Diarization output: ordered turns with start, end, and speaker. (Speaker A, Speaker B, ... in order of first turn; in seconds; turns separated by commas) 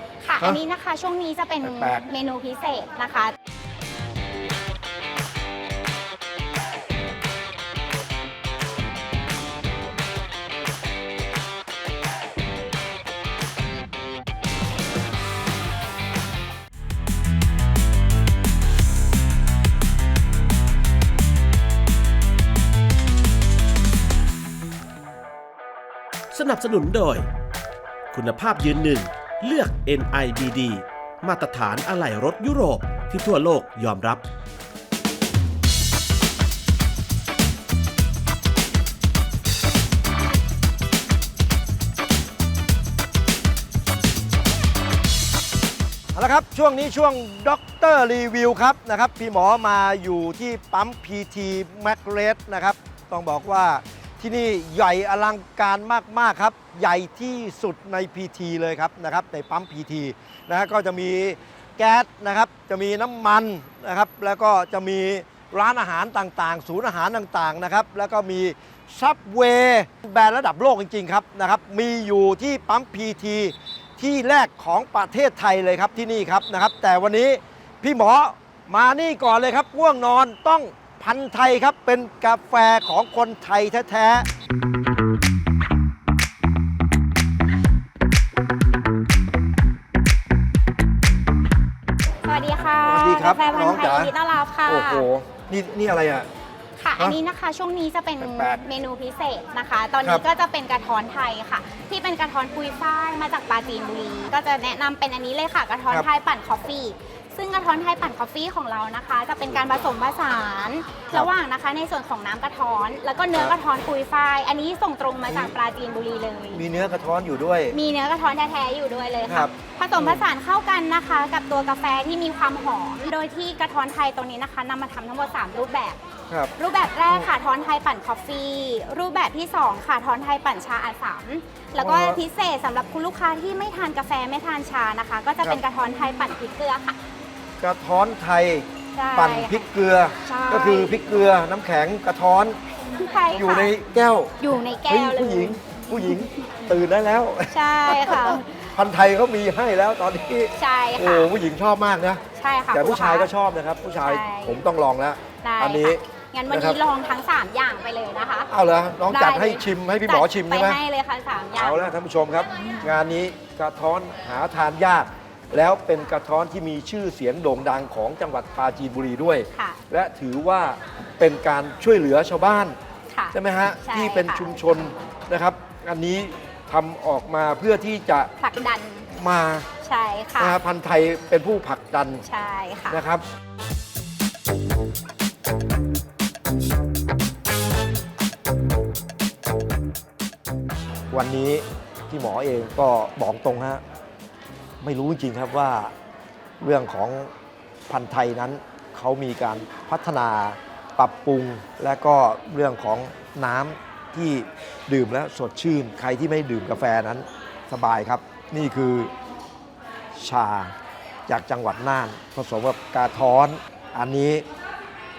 Speaker A: 0.2-3.3, Speaker B: 1.6-2.0, Speaker C: 26.3-27.3, Speaker C: 28.1-34.2, Speaker B: 46.1-84.2, Speaker A: 92.2-95.1, Speaker B: 92.8-94.1, Speaker B: 94.7-96.3, Speaker A: 96.8-116.6, Speaker B: 98.2-98.6, Speaker B: 115.2-115.5, Speaker B: 116.5-117.7, Speaker A: 117.7-126.0, Speaker B: 119.3-120.2, Speaker A: 126.6-137.0, Speaker B: 131.8-132.2, Speaker B: 137.6-142.6, Speaker A: 138.9-139.7, Speaker A: 140.2-140.9, Speaker A: 143.0-143.7, Speaker B: 143.3-152.2, Speaker A: 144.4-146.7, Speaker A: 147.5-148.7, Speaker A: 150.6-151.3, Speaker A: 152.3-153.3, Speaker B: 152.7-156.0, Speaker A: 154.0-154.6, Speaker A: 155.4-158.5, Speaker B: 156.5-156.8, Speaker B: 158.5-160.8, Speaker A: 159.1-161.9, Speaker B: 161.6-172.8, Speaker A: 162.6-162.9, Speaker A: 169.5-169.8, Speaker A: 173.1-174.5, Speaker B: 173.3-178.3, Speaker A: 178.4-179.1, Speaker B: 179.1-179.7, Speaker A: 179.8-180.6, Speaker B: 180.4-182.2, Speaker A: 182.2-183.0, Speaker B: 182.9-183.2, Speaker B: 191.1-193.8, Speaker B: 194.8-195.9, Speaker B: 196.6-197.3, Speaker B: 197.9-209.1, Speaker B: 210.2-210.7, Speaker B: 211.3-214.4